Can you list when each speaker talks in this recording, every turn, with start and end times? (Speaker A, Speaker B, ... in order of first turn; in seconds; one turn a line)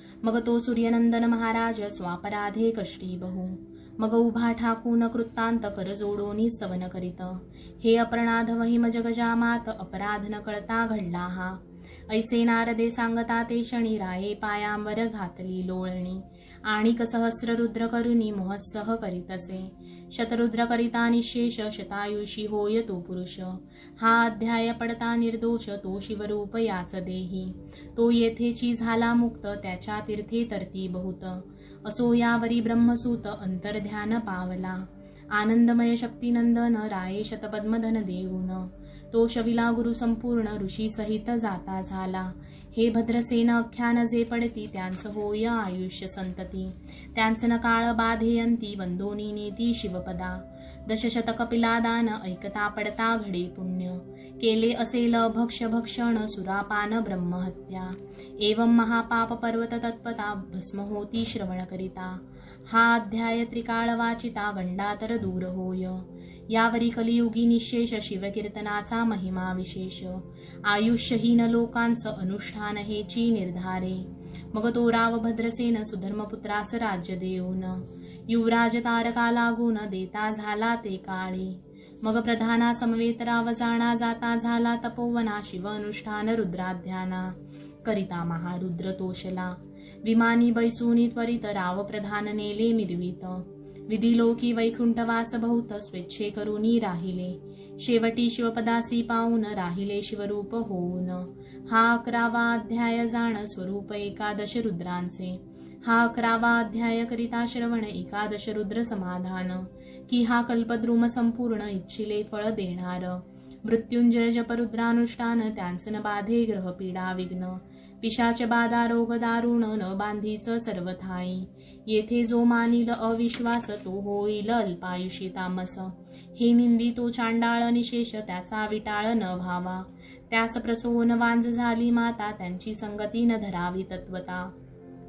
Speaker A: 0.2-134.5